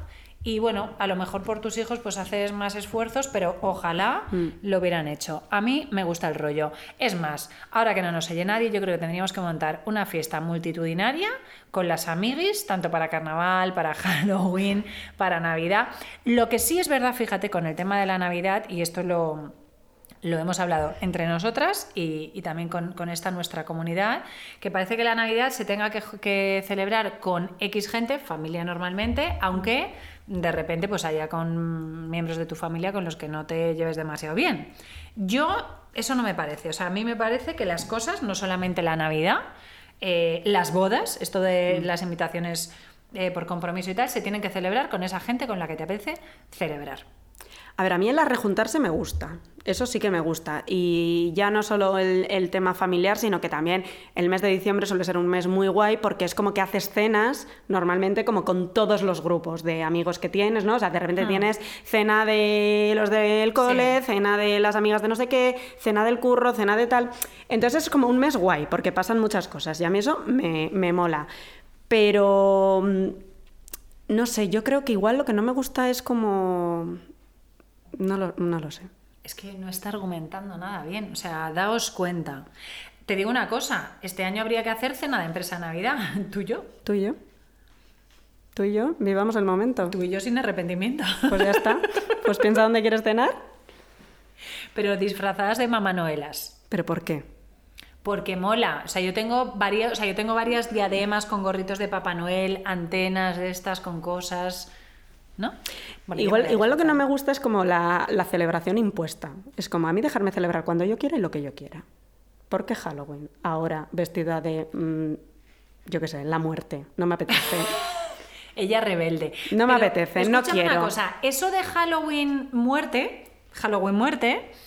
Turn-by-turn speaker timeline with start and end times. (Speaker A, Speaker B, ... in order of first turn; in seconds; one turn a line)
Speaker A: 0.4-19.5
Speaker A: 20.2-39.4
Speaker A: 40.0-47.0
Speaker B: 47.8-71.3
Speaker A: 63.6-63.9
Speaker B: 71.9-73.2
Speaker B: 74.1-77.0
Speaker B: 77.9-78.9
Speaker A: 79.2-82.5
Speaker A: 83.0-86.8
Speaker B: 86.8-87.2
Speaker B: 88.5-90.0
Speaker A: 89.9-92.2
Speaker B: 91.3-93.4
Speaker A: 94.7-96.6
Speaker B: 96.7-97.2
Speaker A: 98.0-104.7
Speaker A: 105.4-107.0
Speaker B: 106.1-111.8
Speaker B: 112.5-115.2
Speaker B: 115.9-117.7
Speaker A: 118.5-124.5
Speaker B: 119.5-120.9